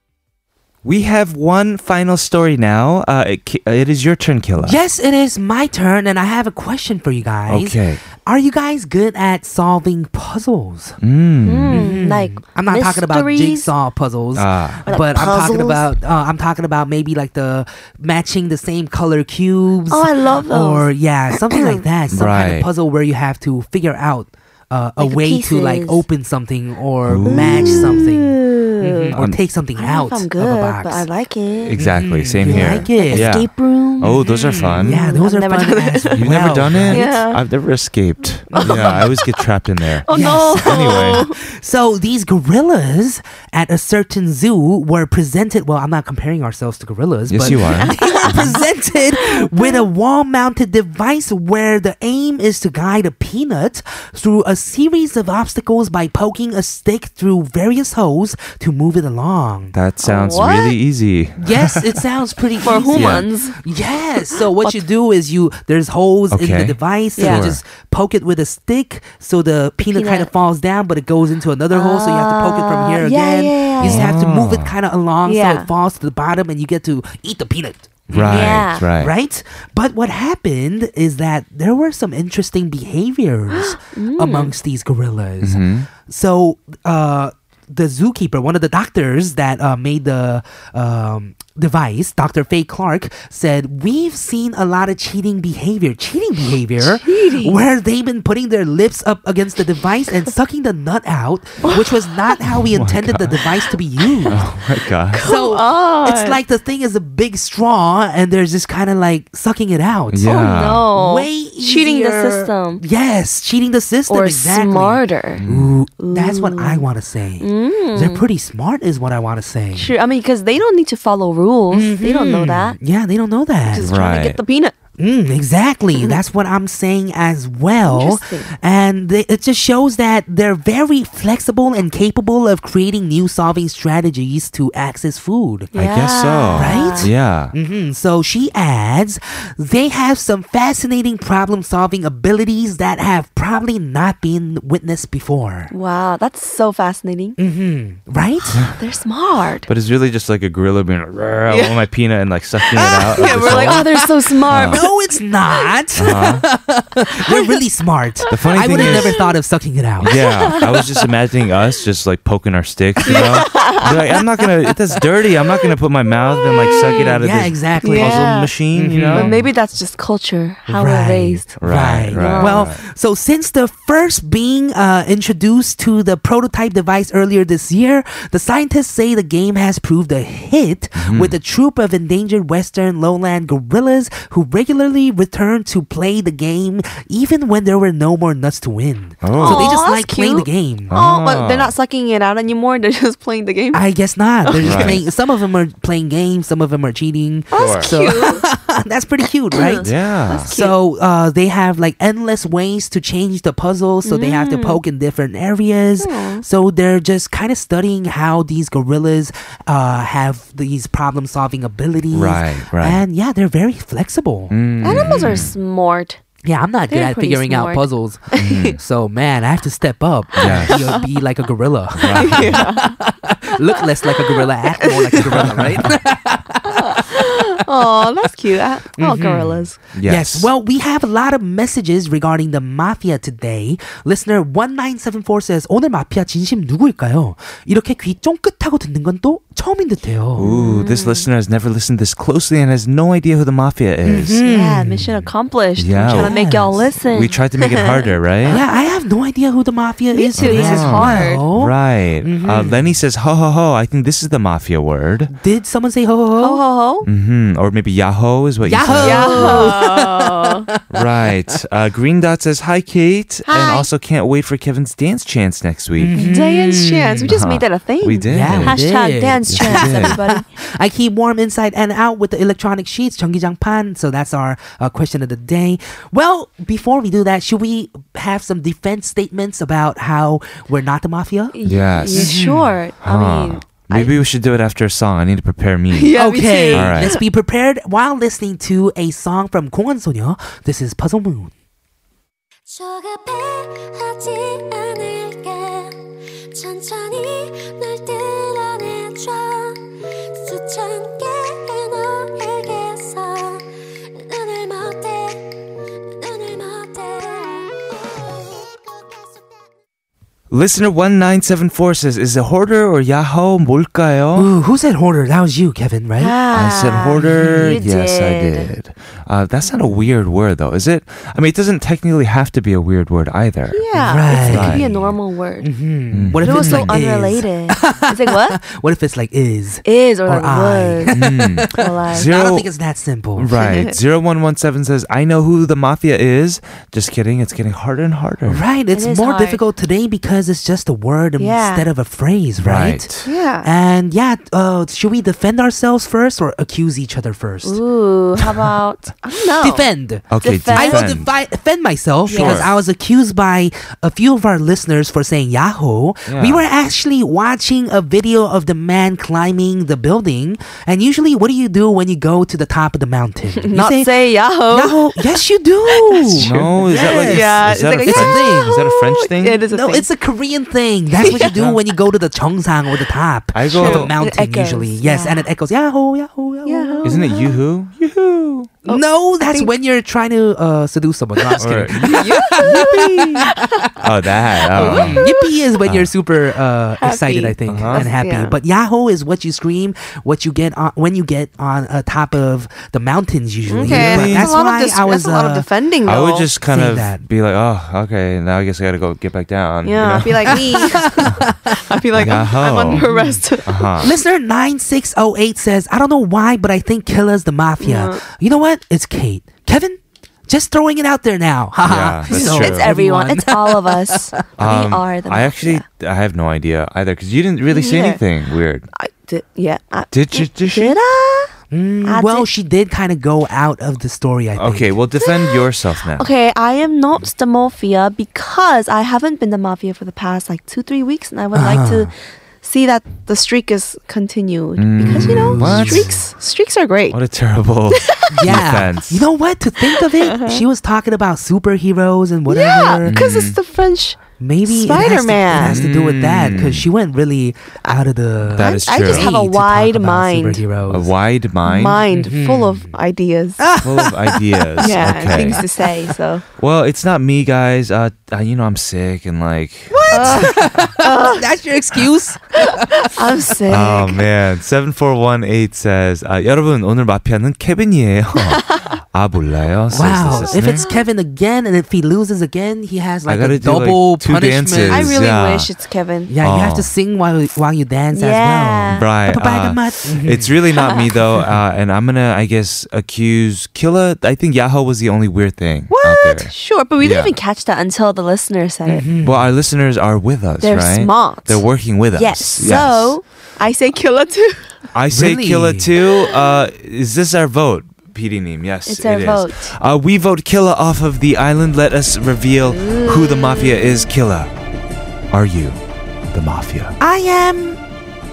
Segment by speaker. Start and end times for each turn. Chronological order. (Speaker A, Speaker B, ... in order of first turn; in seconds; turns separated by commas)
Speaker A: 0.8-4.8, Speaker B: 4.6-11.0, Speaker A: 7.5-8.0, Speaker A: 11.0-11.9, Speaker C: 11.4-13.7, Speaker B: 11.7-28.4, Speaker A: 14.3-14.8, Speaker C: 14.9-15.9, Speaker C: 19.9-21.8, Speaker A: 22.1-22.7, Speaker C: 25.0-26.1, Speaker A: 27.1-28.0, Speaker C: 27.3-29.2, Speaker A: 28.8-29.4, Speaker B: 29.1-31.1, Speaker C: 29.8-31.8, Speaker A: 31.7-35.0, Speaker B: 31.8-33.4, Speaker C: 32.4-36.3, Speaker B: 34.0-37.1, Speaker A: 36.1-41.3, Speaker C: 36.9-37.4, Speaker B: 38.5-39.1, Speaker C: 38.6-39.3, Speaker C: 40.0-41.4, Speaker B: 40.1-59.7, Speaker A: 47.3-48.5, Speaker C: 47.5-48.6, Speaker C: 49.2-49.8, Speaker A: 59.7-62.0, Speaker C: 60.0-60.8, Speaker B: 61.4-104.4, Speaker C: 62.6-63.6, Speaker A: 62.9-63.3, Speaker C: 64.3-64.8, Speaker A: 66.3-67.6, Speaker C: 67.2-67.5, Speaker C: 69.8-70.3, Speaker C: 71.7-74.1, Speaker A: 73.8-74.7, Speaker C: 75.3-75.7, Speaker A: 78.1-79.1, Speaker C: 78.2-78.8, Speaker C: 83.5-84.5, Speaker A: 85.4-85.9, Speaker C: 96.8-97.6, Speaker C: 101.6-102.3, Speaker A: 102.5-103.4, Speaker A: 104.3-105.2, Speaker C: 105.1-106.4, Speaker B: 105.2-119.9, Speaker A: 110.1-110.9, Speaker C: 110.2-112.8, Speaker C: 114.1-115.4, Speaker A: 115.4-115.8, Speaker C: 116.0-116.9, Speaker C: 117.4-118.2, Speaker C: 119.8-122.8, Speaker B: 121.7-123.9, Speaker C: 123.7-124.7, Speaker A: 123.8-124.4, Speaker B: 125.0-135.7, Speaker C: 127.9-128.5, Speaker C: 135.7-137.1, Speaker A: 135.8-137.5, Speaker B: 136.5-145.7, Speaker C: 145.7-147.4, Speaker B: 147.4-148.7, Speaker C: 148.7-149.7, Speaker A: 149.7-154.8, Speaker C: 151.5-151.8, Speaker C: 152.8-154.9, Speaker B: 152.9-154.0, Speaker B: 154.5-160.6, Speaker A: 156.0-156.4, Speaker C: 157.3-157.5, Speaker C: 158.2-159.3, Speaker A: 158.3-159.2, Speaker A: 160.0-169.4, Speaker C: 160.1-160.8, Speaker C: 163.1-164.2, Speaker C: 166.6-167.1, Speaker B: 166.8-169.5, Speaker C: 167.8-168.5, Speaker C: 169.1-171.5, Speaker B: 170.7-190.9, Speaker A: 171.6-172.8, Speaker C: 172.1-172.7, Speaker A: 181.0-181.4, Speaker A: 189.2-189.8, Speaker C: 189.4-193.9, Speaker A: 190.9-191.7, Speaker B: 193.7-215.5, Speaker C: 194.4-195.0, Speaker A: 194.6-195.0, Speaker C: 197.5-198.4, Speaker A: 197.6-197.9, Speaker C: 199.5-200.8, Speaker A: 199.8-200.5, Speaker C: 204.1-204.8, Speaker C: 206.0-206.4, Speaker A: 212.1-213.0, Speaker A: 214.5-215.5, Speaker C: 214.8-216.2, Speaker B: 216.4-227.2, Speaker C: 216.9-218.8, Speaker A: 218.4-218.8, Speaker A: 220.4-220.8, Speaker C: 220.4-221.0, Speaker A: 222.0-222.7, Speaker C: 222.2-223.0, Speaker C: 223.7-224.1, Speaker C: 224.8-225.5, Speaker A: 225.3-225.9, Speaker C: 226.7-229.8, Speaker B: 229.0-240.5, Speaker A: 229.9-230.5, Speaker A: 240.4-244.4, Speaker C: 240.4-241.3, Speaker B: 244.1-245.1, Speaker C: 244.4-248.6, Speaker A: 245.8-246.3, Speaker B: 246.0-246.8, Speaker A: 247.1-248.6, Speaker B: 248.5-253.0, Speaker C: 250.1-251.4, Speaker A: 250.4-255.3, Speaker B: 255.3-256.6, Speaker C: 256.4-257.1, Speaker A: 257.0-259.7, Speaker B: 258.6-261.1, Speaker C: 259.0-260.7, Speaker A: 260.9-266.3, Speaker C: 263.5-263.9, Speaker B: 266.0-267.4, Speaker C: 266.2-270.5, Speaker A: 267.3-268.8, Speaker B: 268.3-281.6, Speaker A: 269.5-270.2, Speaker C: 281.5-284.2, Speaker A: 281.6-282.4, Speaker B: 282.1-282.8, Speaker A: 283.0-286.2, Speaker C: 285.9-287.2, Speaker B: 286.1-291.5, Speaker A: 286.7-287.1, Speaker D: 292.7-305.6, Speaker D: 306.1-309.5, Speaker A: 310.5-314.5, Speaker B: 314.3-316.4, Speaker C: 316.2-318.7, Speaker A: 316.5-325.1, Speaker B: 317.2-317.8, Speaker C: 323.7-325.7, Speaker B: 323.9-324.9, Speaker B: 325.6-333.5, Speaker A: 326.1-327.0, Speaker C: 326.4-328.6, Speaker C: 329.9-332.3, Speaker A: 331.1-332.7, Speaker A: 333.4-338.6, Speaker C: 333.6-333.9, Speaker B: 338.5-347.8, Speaker C: 338.9-339.6, Speaker C: 341.4-341.9, Speaker A: 342.6-343.3, Speaker C: 343.2-343.7, Speaker C: 347.6-351.1, Speaker B: 349.6-368.8, Speaker A: 350.3-351.3, Speaker C: 352.3-352.7, Speaker A: 352.3-352.7, Speaker A: 356.3-356.6, Speaker C: 363.6-365.4, Speaker C: 365.9-370.1, Speaker A: 366.4-369.6, Speaker B: 369.7-377.3, Speaker C: 371.2-371.5, Speaker A: 371.2-371.8, Speaker A: 373.5-374.1, Speaker C: 373.7-375.5, Speaker C: 376.6-377.5, Speaker A: 377.0-378.7, Speaker C: 378.9-379.7, Speaker B: 378.9-383.8, Speaker A: 381.6-382.6, Speaker C: 382.0-383.9, Speaker A: 384.0-385.2, Speaker B: 384.7-395.7, Speaker C: 384.7-385.5, Speaker A: 385.9-386.1, Speaker C: 387.0-388.6, Speaker A: 387.7-388.1, Speaker C: 393.7-396.5, Speaker A: 393.8-394.5, Speaker A: 396.1-400.6, Speaker B: 396.7-397.2, Speaker C: 399.9-404.0, Speaker B: 400.5-402.3, Speaker A: 402.1-403.1, Speaker B: 402.9-403.4, Speaker A: 403.7-404.1, Speaker B: 404.0-414.4, Speaker C: 407.8-408.2, Speaker A: 411.8-412.9, Speaker C: 412.3-415.8, Speaker A: 414.6-418.9, Speaker C: 417.7-418.2, Speaker C: 418.9-421.5, Speaker A: 420.1-421.0, Speaker B: 421.7-425.0, Speaker C: 422.1-422.5, Speaker A: 424.6-426.3, Speaker C: 425.2-425.6, Speaker C: 426.2-437.2, Speaker B: 431.5-432.1, Speaker A: 434.8-436.2, Speaker B: 435.0-436.1, Speaker A: 437.1-439.3, Speaker B: 438.3-443.2, Speaker C: 440.0-440.6, Speaker C: 442.5-445.8, Speaker A: 443.1-443.6, Speaker B: 444.4-451.1, Speaker A: 445.6-446.9, Speaker A: 448.5-449.3, Speaker C: 448.6-450.6, Speaker A: 450.9-452.0, Speaker C: 451.6-453.7, Speaker B: 452.1-452.9, Speaker B: 453.6-455.5, Speaker A: 453.8-455.6, Speaker C: 454.8-456.4, Speaker A: 456.6-460.6, Speaker C: 460.0-461.4, Speaker B: 460.1-463.4, Speaker C: 462.6-464.2, Speaker A: 463.7-470.8, Speaker C: 468.5-468.9, Speaker B: 469.9-475.2, Speaker C: 470.0-471.1, Speaker A: 473.3-475.7, Speaker C: 474.9-476.3, Speaker B: 476.3-480.6, Speaker A: 476.4-476.9, Speaker C: 478.1-479.1, Speaker A: 478.9-487.3, Speaker C: 480.8-481.1, Speaker C: 485.9-489.1, Speaker B: 488.9-489.5, Speaker A: 489.2-493.2, Speaker C: 490.6-494.7, Speaker A: 494.9-504.5, Speaker B: 495.1-495.9, Speaker C: 496.0-496.4, Speaker C: 498.9-499.7, Speaker C: 502.6-504.1, Speaker A: 505.3-505.8, Speaker A: 506.3-507.0, Speaker B: 507.0-507.8